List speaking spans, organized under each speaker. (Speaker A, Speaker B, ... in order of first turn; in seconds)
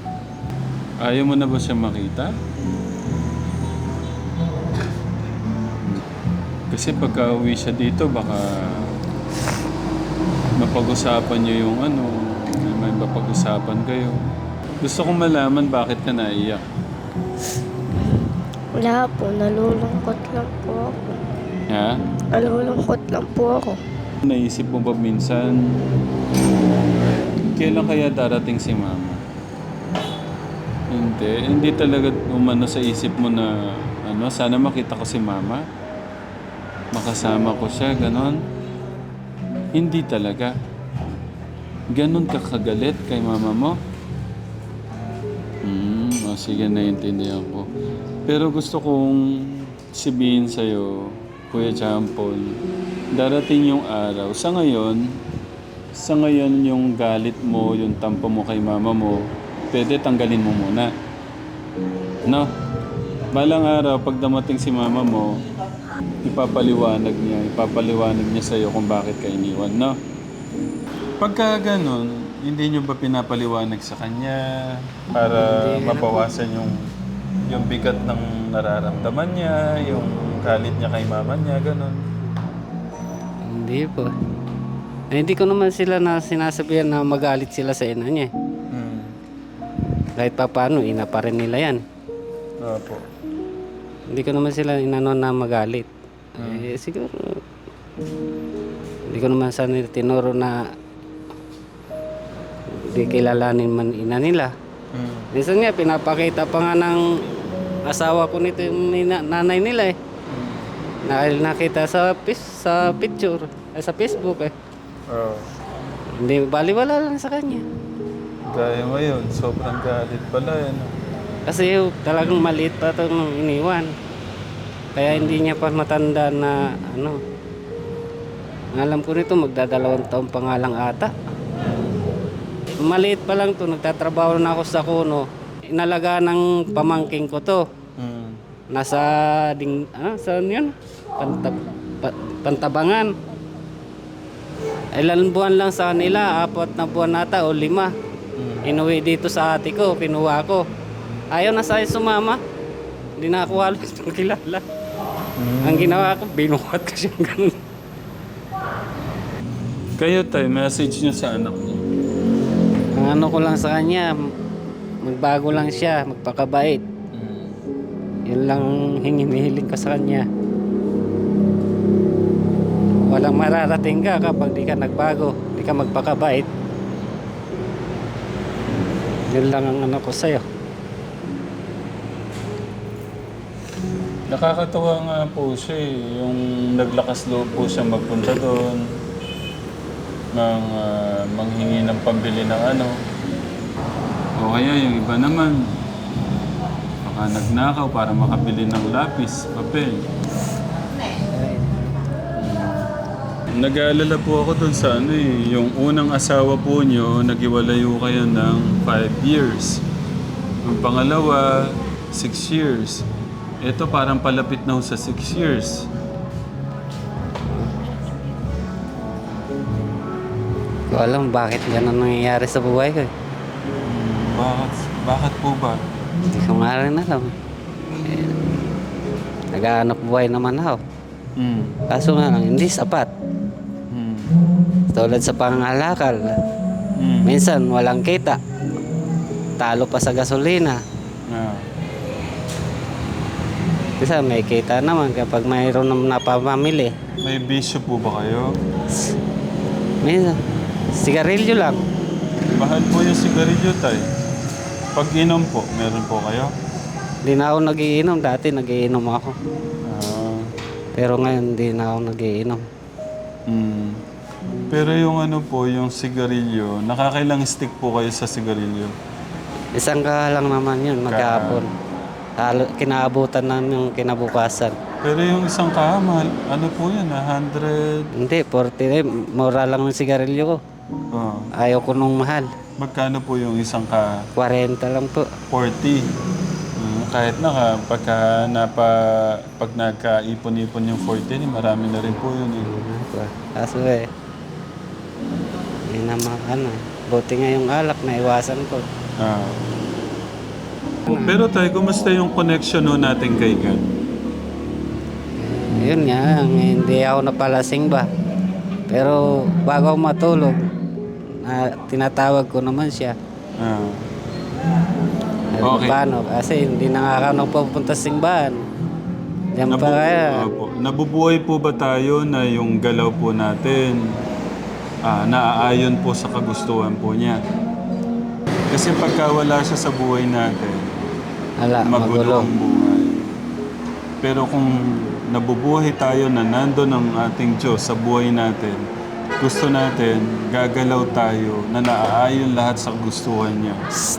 Speaker A: 1.0-2.4, 6.7-8.9, 10.6-14.2, 14.8-16.6, 21.7-22.0, 24.2-25.7, 27.6-29.2, 30.9-35.6, 36.9-38.4, 39.8-40.5, 41.9-43.8, 45.6-47.7, 48.3-52.6, 53.1-55.0, 56.0-60.9, 63.3-65.4, 66.2-70.0, 71.2-76.9, 77.5-82.1, 88.7-89.1, 92.6-93.0, 96.4-96.7, 104.9-105.3, 110.3-110.7, 115.1-115.5, 118.5-120.9, 125.1-125.4, 138.0-138.4, 148.4-148.7, 155.4-156.1, 160.0-161.9, 167.1-167.6, 184.3-188.9, 190.3-193.0, 194.4-195.8, 197.1-200.0, 202.4-202.9, 203.6-209.8, 210.6-213.1, 213.6-215.9, 223.8-225.8, 231.4-231.8, 233.9-234.3, 237.0-237.3, 241.3-241.7, 247.2-248.5, 252.6-254.0, 255.0-256.5, 259.9-260.5, 263.5-264.0, 264.7-269.0, 271.1-271.6, 275.0-278.1, 281.1-281.5, 282.8-284.3, 285.5-286.1, 286.8-292.7, 299.2-299.7, 301.1-303.8, 313.6-314.1, 315.6-316.0, 319.7-324.0, 325.1-327.4, 328.7-330.8, 331.8-333.3, 334.2-338.9, 339.4-343.8
Speaker B: 18.7-21.2, 22.3-23.8
Speaker C: 75.3-76.2, 83.5-84.1, 85.1-88.3, 90.2-91.8, 94.1-95.9, 96.4-97.4, 99.1-100.7, 102.8-104.5, 105.3-110.0, 111.1-114.5, 116.2-117.6, 121.5-123.9, 125.0-127.2, 128.8-131.1, 132.8-137.6, 138.7-143.1, 145.0-147.9, 148.7-150.7, 151.3-152.4, 153.2-154.6, 155.6-157.6, 163.0-164.2, 165.0-166.8, 168.3-170.3, 173.1-176.5, 179.3-180.4, 201.3-201.7, 220.9-223.1, 226.3-227.3, 228.1-228.3, 229.6-230.8, 231.9-233.1, 234.9-236.4, 237.2-238.4, 239.6-240.8, 244.0-246.9, 250.0-250.4, 251.0-251.8, 257.2-259.4, 261.0-262.6, 269.8-271.7, 272.4-274.8, 278.2-280.6, 281.6-282.5, 284.4-285.3, 292.6-294.1, 295.9-298.8, 301.1-301.3, 305.6-308.1, 308.9-310.6, 311.4-313.2, 315.6-318.6, 319.6-320.3, 331.6-332.5